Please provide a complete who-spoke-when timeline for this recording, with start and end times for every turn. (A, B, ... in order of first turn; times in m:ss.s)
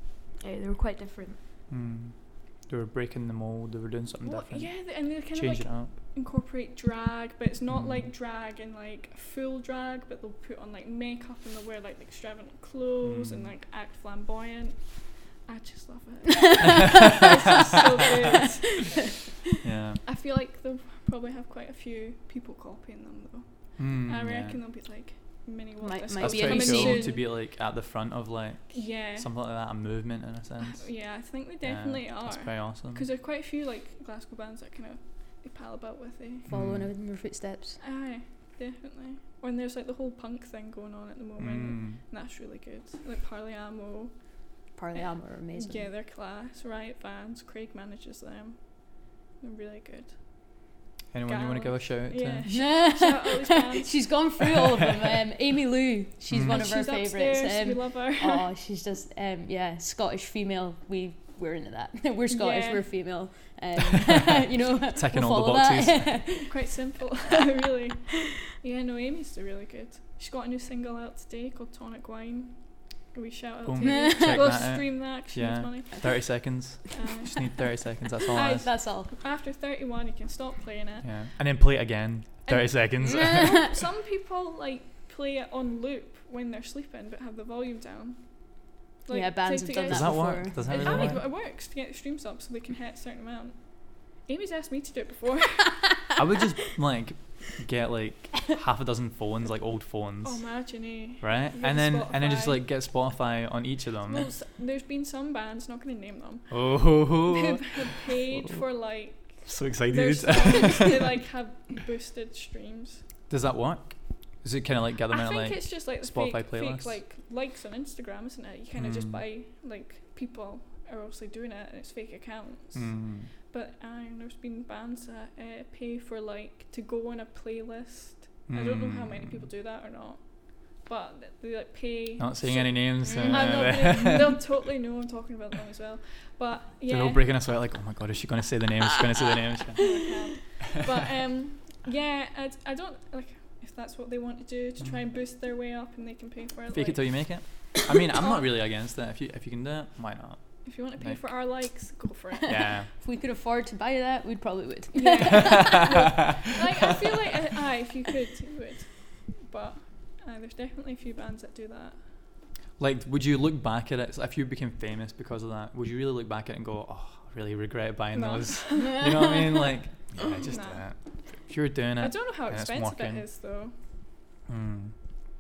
0:00.4-0:01.4 A
0:01.7-0:05.9 B
0:04.2-0:19.1 C
0:07.7-0:08.1 B
0:13.0-0:13.5 B
0:16.8-0:17.2 B
0:19.6-0:20.0 B
0:20.0-0:27.3 C
0:23.8-0:24.6 B
0:25.8-0:27.1 A
0:26.2-0:31.0 B
0:28.7-0:29.3 C
0:30.6-0:36.5 C
0:31.6-0:33.1 B
0:36.5-0:36.9 B
0:36.5-0:37.8 A
0:37.8-0:44.2 C
0:41.4-0:42.0 B
0:44.8-0:45.9 A
0:45.5-0:50.6 C
0:51.1-0:52.5 B
0:51.3-0:54.1 C
0:52.5-1:06.6 A
0:56.3-0:56.7 B
0:56.4-0:58.5 C
1:02.3-1:02.9 C
1:04.1-1:06.3 B
1:06.5-1:16.2 C
1:13.7-1:18.7 B
1:13.8-1:14.5 A
1:16.9-1:17.8 C
1:18.3-1:21.1 C
1:18.4-1:19.1 A
1:21.0-1:23.8 B
1:22.5-1:36.0 C
1:23.2-1:23.7 A
1:29.1-1:31.3 A
1:29.9-1:31.3 B
1:36.2-1:44.3 B
1:40.2-1:42.6 C
1:44.1-1:46.6 C
1:46.5-1:48.6 B
1:47.2-1:53.1 C
1:49.2-1:51.2 B
1:53.3-1:57.0 B
1:55.1-2:17.2 C
1:58.8-1:59.2 B
2:02.7-2:03.3 B
2:08.5-2:09.5 B
2:12.2-2:14.6 B
2:13.0-2:14.0 A
2:16.9-2:20.0 B
2:19.8-2:27.2 C
2:26.7-2:31.2 B
2:30.6-2:32.7 C
2:32.4-2:32.9 B
2:32.5-2:36.2 A
2:34.9-2:42.1 C
2:35.3-2:36.2 B
2:42.8-2:53.2 B
2:48.1-2:49.4 C
2:48.9-2:49.6 A
2:50.5-2:50.8 C
2:52.0-2:53.8 C
2:54.5-2:55.2 B